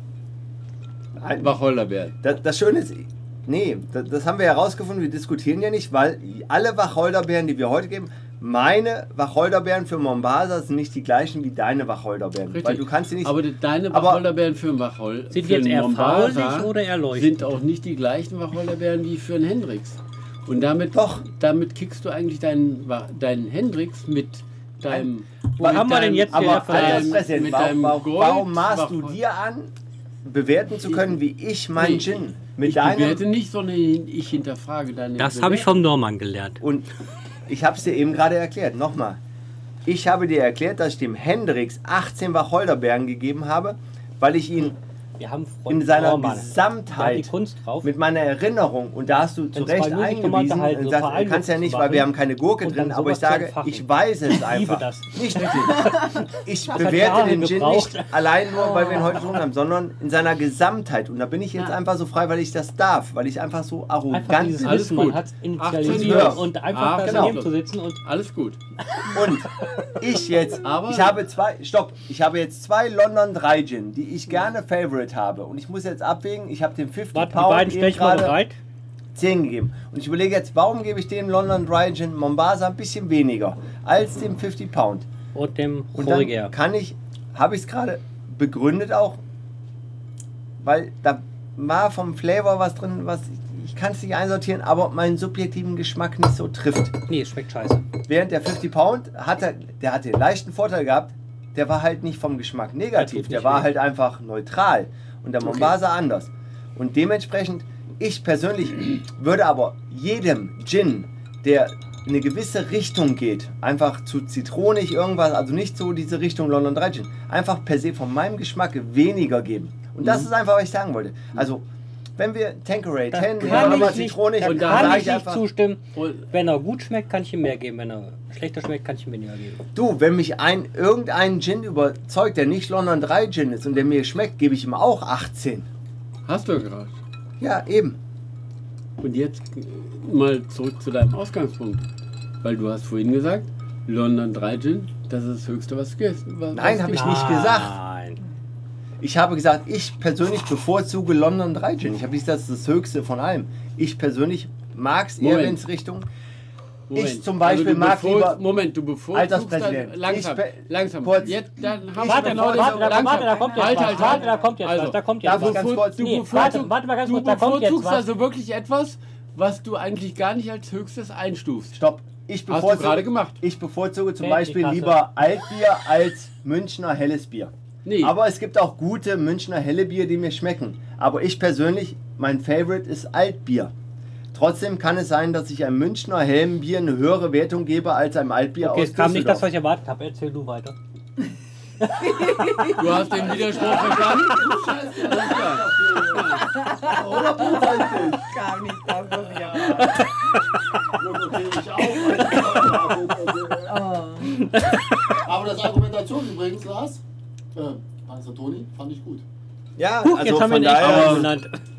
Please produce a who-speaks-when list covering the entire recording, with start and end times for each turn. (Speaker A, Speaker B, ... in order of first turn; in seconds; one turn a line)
Speaker A: 1.2-1.5
Speaker B: 1.4-2.1
Speaker A: 2.2-13.4
Speaker B: 12.5-29.1
Speaker A: 13.9-14.2
Speaker C: 15.3-17.3
Speaker A: 20.9-21.2
Speaker C: 25.6-27.2
Speaker A: 25.6-29.7
Speaker A: 30.2-33.2
Speaker B: 30.9-31.1
Speaker B: 31.7-35.8
Speaker C: 35.2-36.6
Speaker A: 36.6-36.9
Speaker A: 37.5-39.2
Speaker A: 39.8-44.8
Speaker C: 45.2-47.9
Speaker A: 45.7-47.3
Speaker A: 47.8-64.8
Speaker C: 49.5-58.1
Speaker D: 58.6-59.1
Speaker C: 64.1-68.0
Speaker B: 64.6-68.6
Speaker A: 65.8-66.5
Speaker A: 67.0-67.4
Speaker C: 69.0-69.2
Speaker A: 69.1-78.3
Speaker B: 70.6-71.2
Speaker C: 77.1-78.6
Speaker A: 79.1-85.1
Speaker C: 85.3-86.5
Speaker A: 85.9-89.2
Speaker A: 90.6-97.0
Speaker C: 97.1-97.8
Speaker A: 98.1-121.6
Speaker C: 103.0-103.7
Speaker B: 105.4-105.7
Speaker A: 122.2-125.4
Speaker C: 123.1-129.6
Speaker B: 123.4-125.2
Speaker B: 125.9-126.3
Speaker A: 129.7-135.7
Speaker B: 136.2-136.9
Speaker A: 137.4-138.0
Speaker B: 139.0-141.9
Speaker B: 142.4-147.1
Speaker A: 146.5-147.7
Speaker C: 146.9-148.2
Speaker A: 149.0-156.1
Speaker B: 155.2-155.6
Speaker B: 156.9-171.8
Speaker A: 156.9-158.4
Speaker A: 159.1-161.4
Speaker A: 162.0-163.1
Speaker C: 162.0-168.0
Speaker D: 162.8-164.5
Speaker A: 165.2-166.5
Speaker A: 171.7-183.7
Speaker B: 172.5-173.4
Speaker C: 174.2-175.0
Speaker B: 177.8-178.1
Speaker A: 184.3-189.4
Speaker C: 188.6-190.7
Speaker D: 191.9-194.3
Speaker B: 192.8-196.4
Speaker E: 193.0-198.3
Speaker D: 196.3-200.5
Speaker E: 199.2-200.0
Speaker E: 200.9-203.9
Speaker D: 203.6-204.5
Speaker C: 204.2-205.2
Speaker E: 205.1-207.0
Speaker E: 207.5-209.2
Speaker A: 209.8-211.3
Speaker C: 210.0-211.5
Speaker B: 210.8-211.3